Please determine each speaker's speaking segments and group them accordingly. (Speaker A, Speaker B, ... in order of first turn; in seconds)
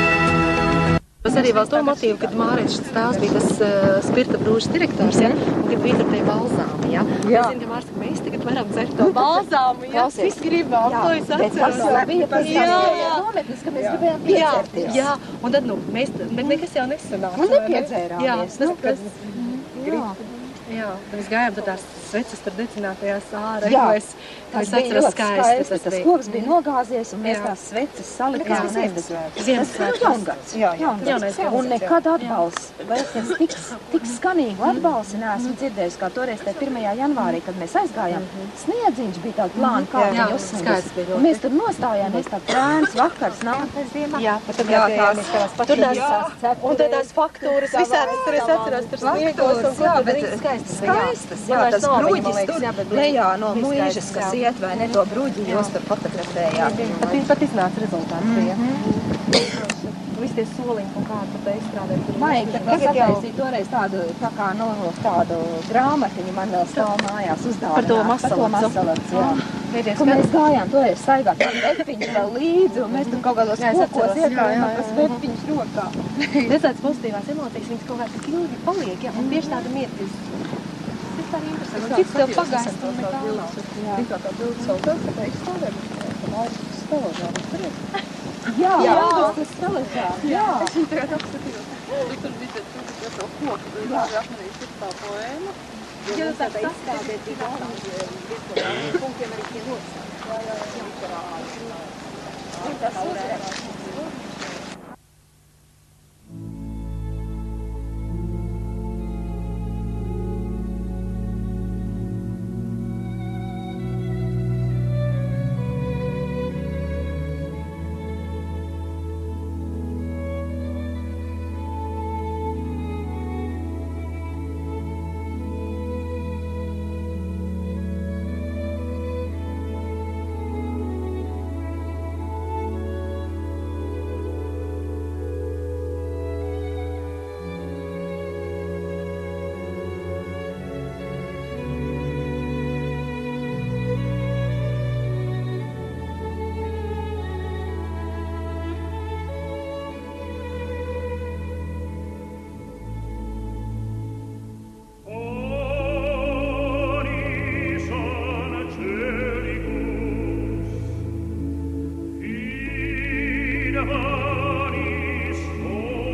Speaker A: 1.2-9.4, 10.1-13.2, 14.2-19.5, 20.7-26.5, 27.2-27.5, 28.4-32.4, 39.6-41.4, 44.1-55.7, 56.5-63.2, 67.7-70.3, 72.8-74.8, 76.4-80.3, 81.2-83.6, 88.8-89.3, 96.0-98.0, 98.5-99.8
Speaker B: 1.3-3.4, 9.2-11.0, 11.6-13.2, 13.8-14.7, 18.8-20.5, 28.5-28.8, 30.5-31.9, 39.9-40.3, 45.7-49.3, 56.6-57.2, 59.4-59.9, 62.7-63.1, 74.4-75.1, 81.7-87.8, 88.8-89.4, 90.0-101.9, 102.5-104.2, 158.6-159.1
Speaker C: 5.0-5.4, 7.2-7.5, 9.0-15.1, 17.3-20.2, 23.6-24.0, 24.5-44.0, 44.6-46.4, 49.0-56.8, 58.2-58.9, 62.1-76.5, 79.2-79.7, 83.8-84.1, 88.4-90.8, 93.8-94.2, 96.5-97.6, 102.6-103.7